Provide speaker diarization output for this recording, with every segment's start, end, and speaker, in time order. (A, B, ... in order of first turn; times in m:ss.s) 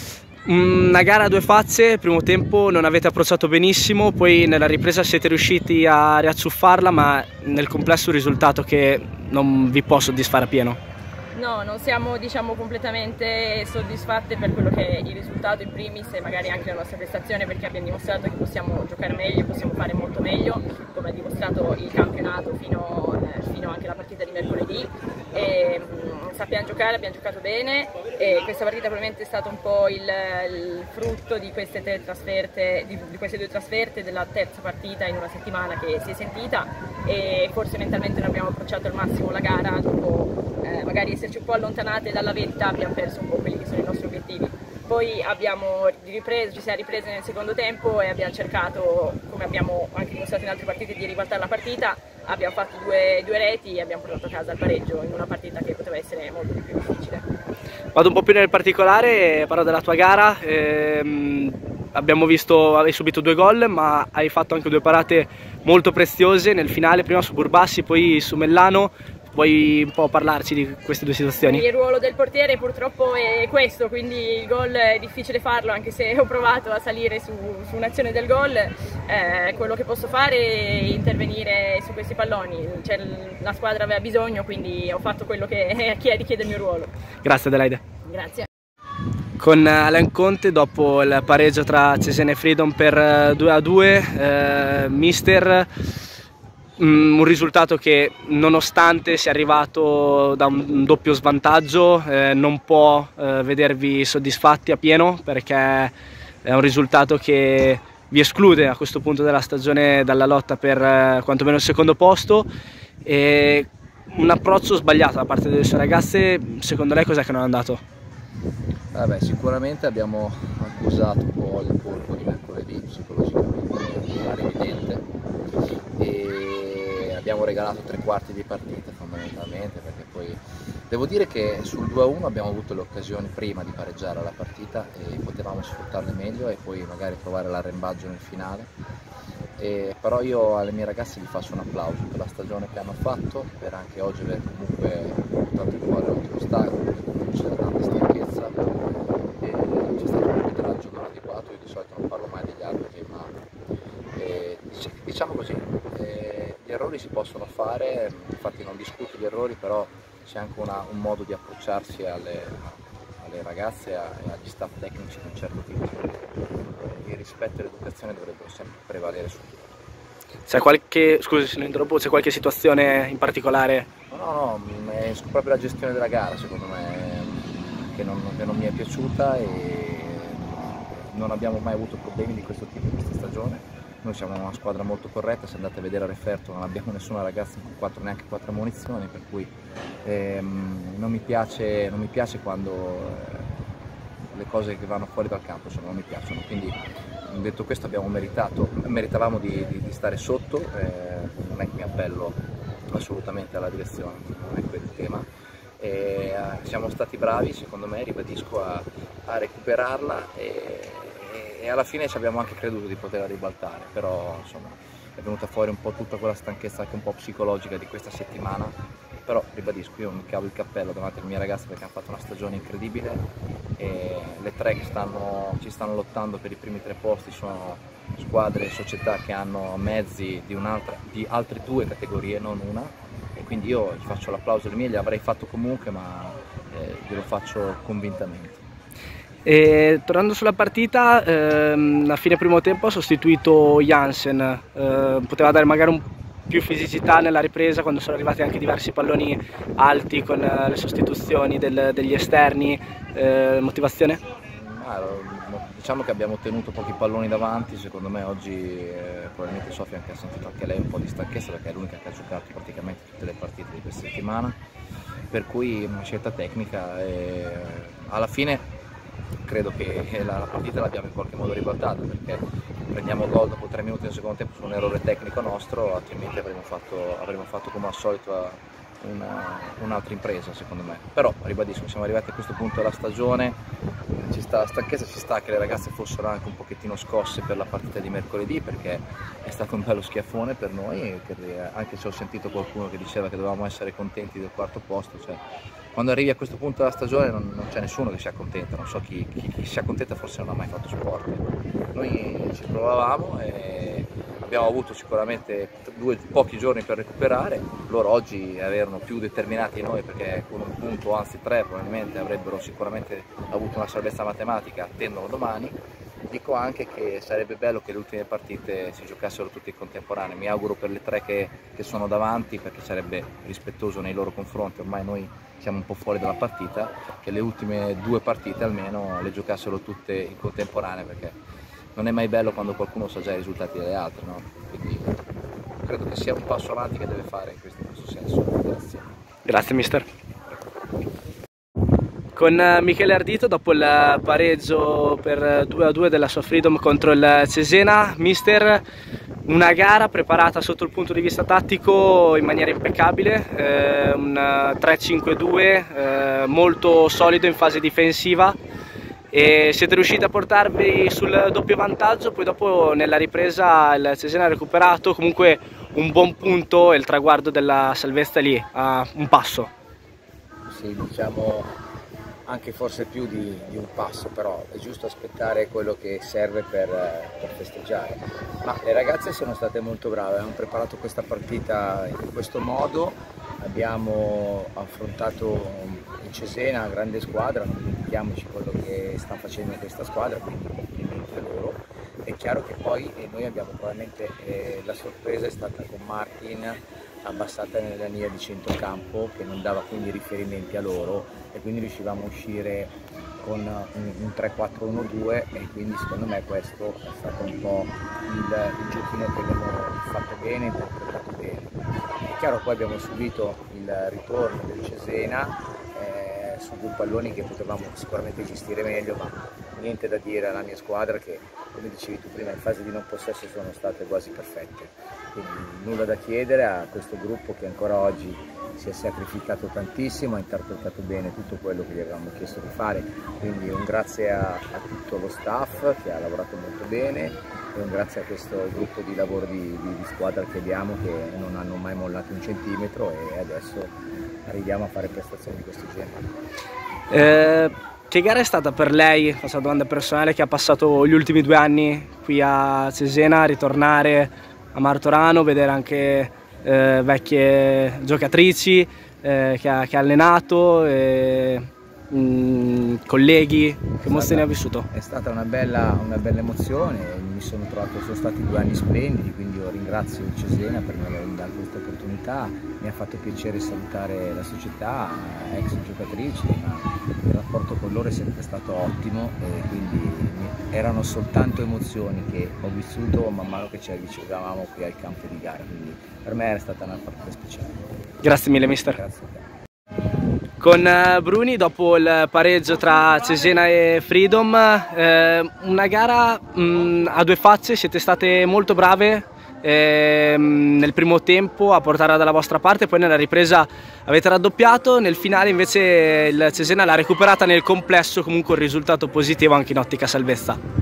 0:00.4-0:10.8 A
0:11.4-0:57.3 B
0:57.9-1:11.6 A
1:11.4-1:26.9 B
1:27.2-1:27.8 A
1:28.0-1:28.5 B
1:29.4-1:35.7 A
1:36.8-1:45.9 A
1:46.4-1:52.5 A
1:53.0-1:57.8 A
1:58.9-2:05.1 C
2:06.0-2:18.7 C
2:19.6-2:28.6 C
2:29.4-2:33.3 C
2:34.2-2:46.2 C
2:46.8-2:49.6 C
2:50.5-2:53.9 A
2:54.1-3:13.5 C
3:14.3-3:22.4 C
3:22.9-3:25.3 C
3:25.8-3:43.3 C
3:43.8-3:58.6 C
3:59.4-4:14.2 A
4:14.5-4:24.6 C
4:25.3-4:28.7 C
4:29.4-4:43.6 C
4:44.2-4:55.4 C
4:56.0-5:31.4 C
5:32.0-5:35.2 C
5:35.8-5:39.1 C
5:39.5-5:40.0 A
5:42.4-5:48.8 A
5:49.5-5:58.6 A
5:59.3-6:09.7 A
6:10.7-6:11.7 D
6:12.5-6:51.7 D
6:52.2-7:26.3 D
7:27.1-7:44.9 A
7:44.0-8:07.9 D
8:08.2-8:09.0 A
8:08.9-8:09.5 D
8:10.6-8:30.6 A